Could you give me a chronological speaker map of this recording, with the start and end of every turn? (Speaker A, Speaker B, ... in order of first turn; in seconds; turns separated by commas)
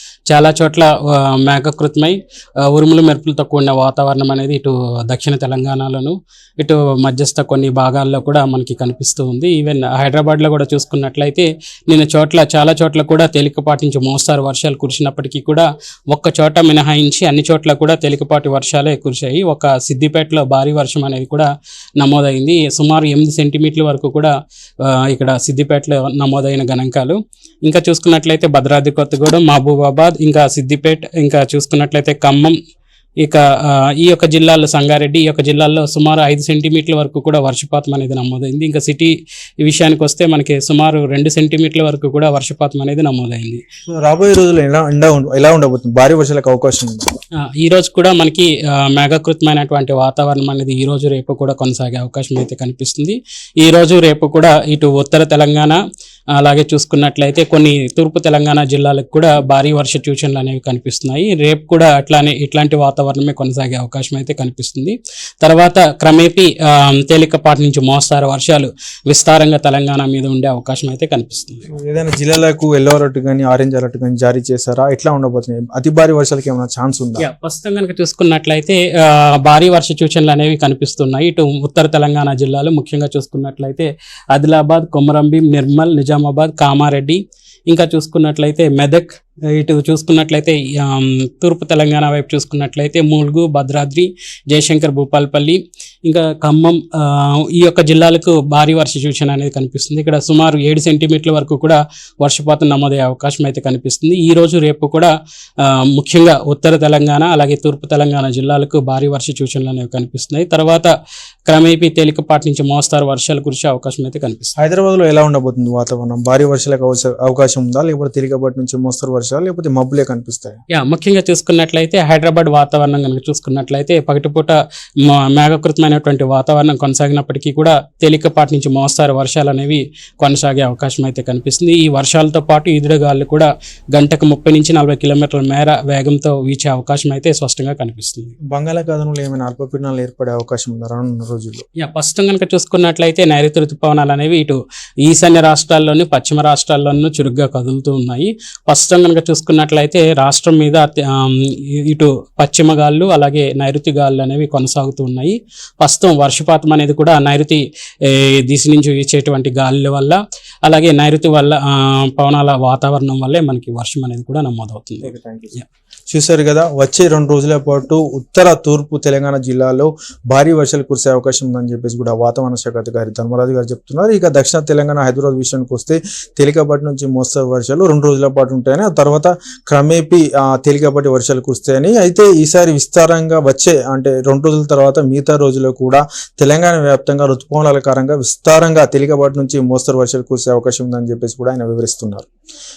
Speaker A: 0.3-21.5, Speaker A: 22.0-32.5, Speaker A: 33.2-43.6, Speaker B: 43.9-47.1, Speaker A: 47.5-55.8, Speaker A: 56.4-71.6, Speaker B: 71.7-77.2, Speaker A: 77.2-110.9, Speaker A: 111.5-114.5, Speaker B: 114.6-120.6, Speaker A: 120.7-138.3, Speaker B: 138.5-141.7, Speaker A: 141.8-165.0, Speaker B: 165.0-165.6, Speaker B: 166.1-192.3